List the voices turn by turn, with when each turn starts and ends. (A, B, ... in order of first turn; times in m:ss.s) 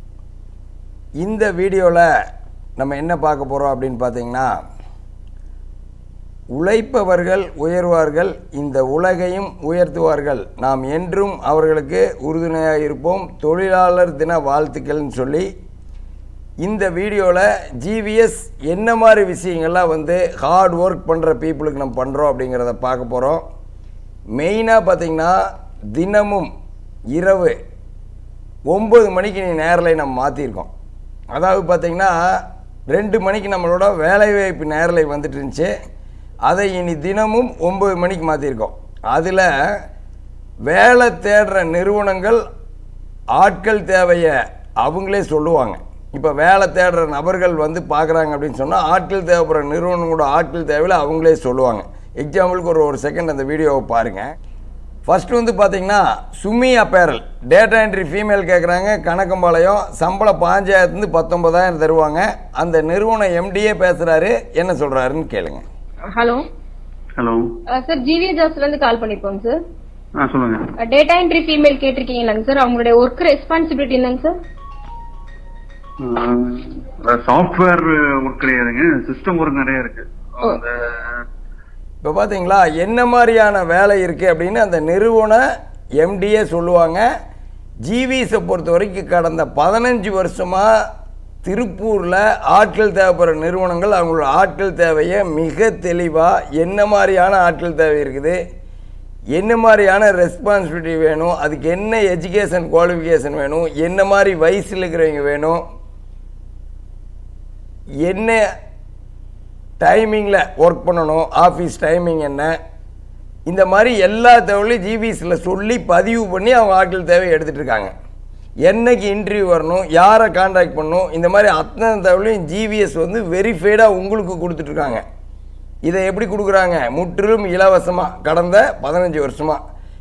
0:01.2-0:02.1 A
0:02.8-0:04.5 A
0:06.5-0:15.5 A
0:16.6-0:23.4 A
0:24.4-0:25.4 A
0:25.9-0:26.5 A
0:27.2-0:27.6 A
0:28.7-0:30.7 A
0:31.3-0:35.7 A
0:36.5-0:39.5 A
0:40.7-0:42.4 A
0:43.4-0:54.3 A
0:55.1-1:05.6 A
1:06.2-1:06.4 B
1:07.2-1:07.5 C
1:07.7-1:09.6 B
1:10.2-1:10.7 C
1:10.8-1:14.3 B
1:16.0-1:21.2 C
1:22.0-1:25.4 A
1:26.0-1:27.0 A
1:27.8-1:30.7 A
1:31.4-1:38.4 A
1:39.4-1:45.6 A
1:48.0-1:48.4 A
1:49.8-1:52.5 A
1:53.5-1:57.9 A
1:58.7-2:05.0 A
2:05.8-2:09.6 A